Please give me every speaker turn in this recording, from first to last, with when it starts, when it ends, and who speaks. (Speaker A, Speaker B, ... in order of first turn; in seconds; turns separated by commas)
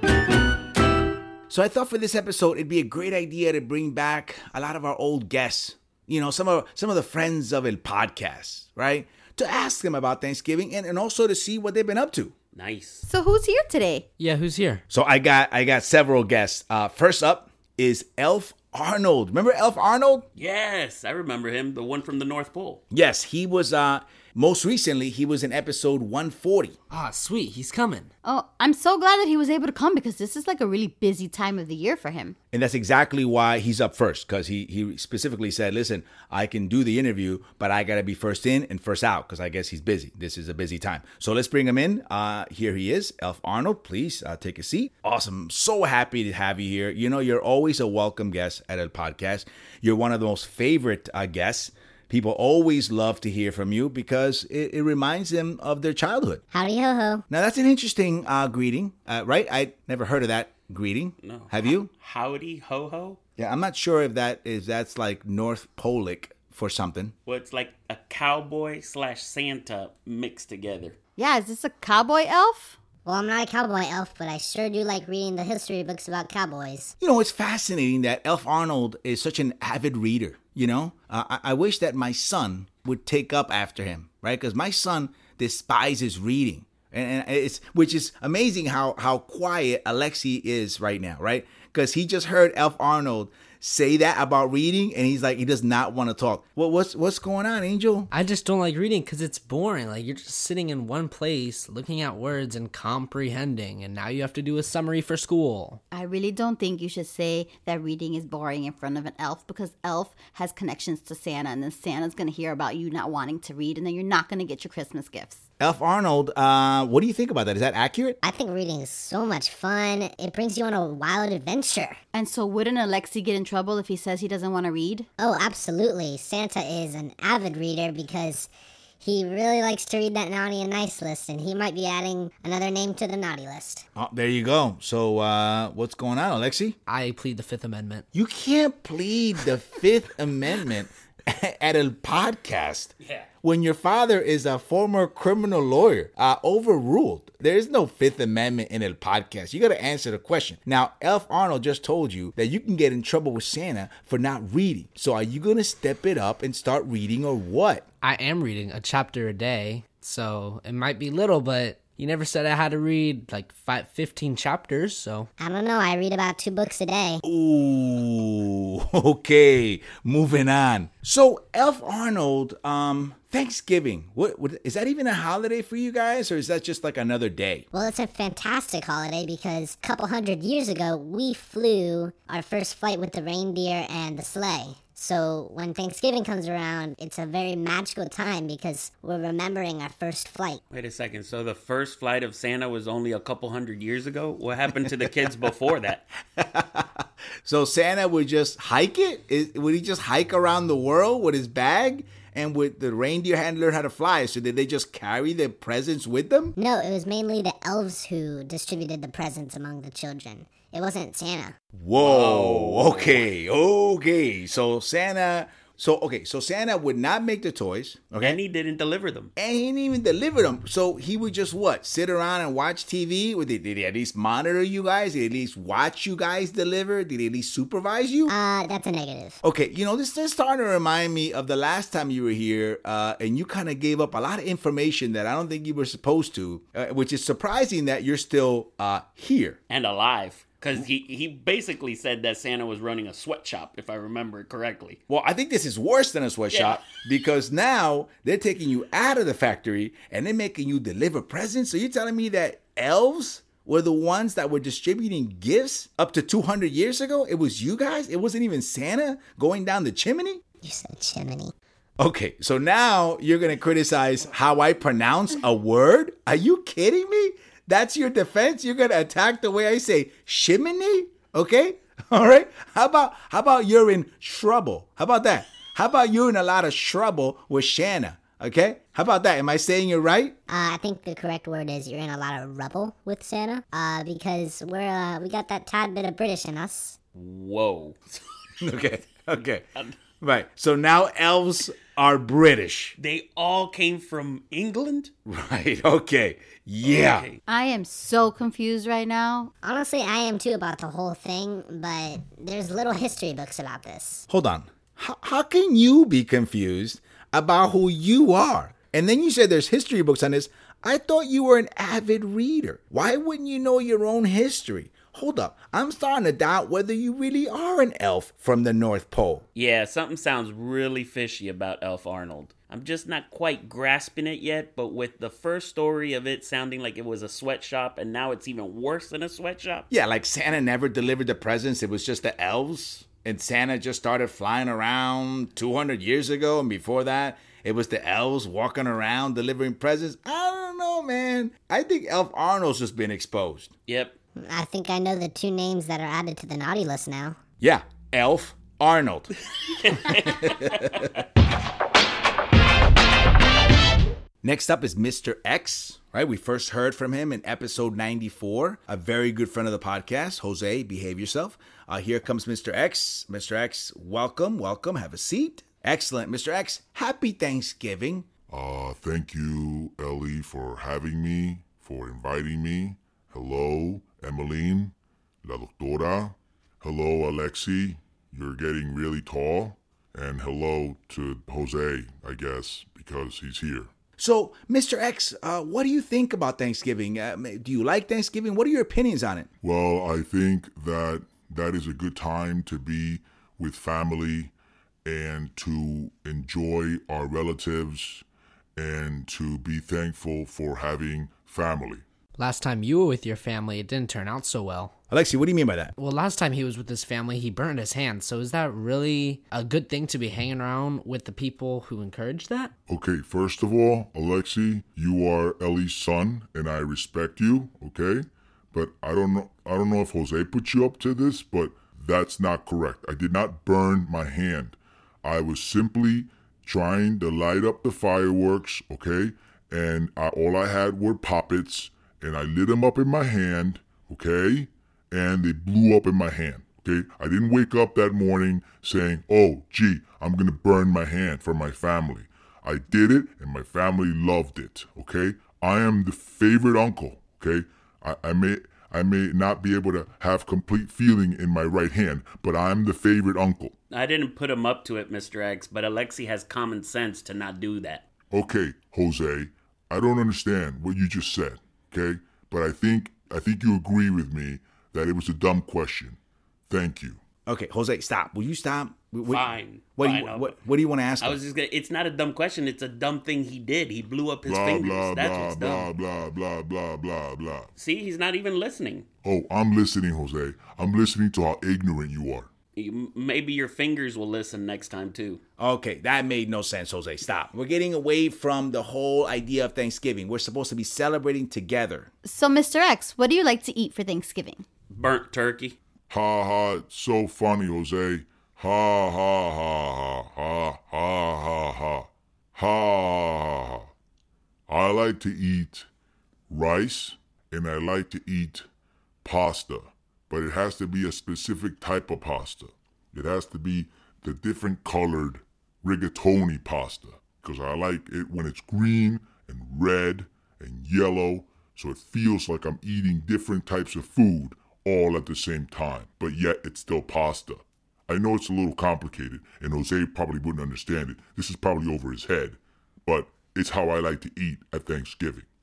Speaker A: 1.5-12.3, Speaker B: 12.5-13.0, Speaker C: 13.1-14.1, Speaker D: 14.2-14.8, Speaker A: 14.9-20.3, Speaker B: 20.4-22.8, Speaker A: 22.9-26.8, Speaker D: 26.9-28.1, Speaker C: 28.2-32.4, Speaker A: 32.5-56.4, Speaker E: 56.5-57.2, Speaker A: 57.3-61.9, Speaker B: 61.2-63.2, Speaker A: 63.4-67.1, Speaker B: 67.2-71.0, Speaker C: 71.2-72.8, Speaker E: 73.0-76.9, Speaker A: 77.0-98.1, Speaker D: 98.1-105.8, Speaker C: 105.9-115.4, Speaker A: 115.6-118.2, Speaker E: 118.2-122.0, Speaker C: 122.1-125.1, Speaker E: 125.2-128.5, Speaker E: 129.0-133.8, Speaker A: 133.9-136.8, Speaker D: 136.9-138.1, Speaker A: 138.1-157.8, Speaker D: 158.0-165.3, Speaker E: 165.4-167.2, Speaker A: 167.2-177.7, Speaker E: 177.7-190.6, Speaker B: 190.7-196.0, Speaker A: 196.3-206.6, Speaker E: 206.6-211.5, Speaker A: 211.7-218.4, Speaker B: 212.0-213.2, Speaker B: 218.2-219.3, Speaker A: 219.3-228.3, Speaker E: 228.3-229.4, Speaker A: 229.4-239.6, Speaker B: 239.7-245.0, Speaker A: 245.1-260.4, Speaker B: 246.5-246.8, Speaker E: 260.6-261.5, Speaker A: 262.0-280.4, Speaker E: 280.5-287.0, Speaker B: 287.1-288.2, Speaker A: 288.6-289.6, Speaker A: 290.2-293.0, Speaker B: 293.0-295.1, Speaker A: 295.2-297.3, Speaker B: 296.8-297.4, Speaker C: 297.5-299.5, Speaker E: 299.6-304.3, Speaker A: 304.3-319.4, Speaker B: 319.6-329.9, Speaker A: 329.9-343.7, Speaker B: 343.9-344.1, Speaker E: 344.4-347.4, Speaker A: 347.6-349.3, Speaker B: 349.8-351.1, Speaker A: 349.9-351.1, Speaker A: 354.4-368.3, Speaker F: 368.5-383.9, Speaker A: 384.2-389.5, Speaker F: 389.6-394.5, Speaker F: 395.0-398.2, Speaker F: 398.8-402.0, Speaker D: 402.4-404.9, Speaker A: 405.1-405.9, Speaker D: 406.0-412.7, Speaker F: 412.9-453.7, Speaker B: 453.9-458.0, Speaker F: 458.3-466.2, Speaker F: 466.7-467.2, Speaker A: 467.4-471.4, Speaker B: 469.3-470.5, Speaker B: 471.2-475.9, Speaker F: 474.4-477.7, Speaker B: 477.8-479.1, Speaker F: 479.2-482.5, Speaker B: 482.8-485.4, Speaker A: 485.6-492.1, Speaker C: 492.2-494.6, Speaker B: 494.9-495.8, Speaker F: 496.1-503.9, Speaker F: 504.7-505.9, Speaker F: 506.5-508.6, Speaker F: 509.2-535.4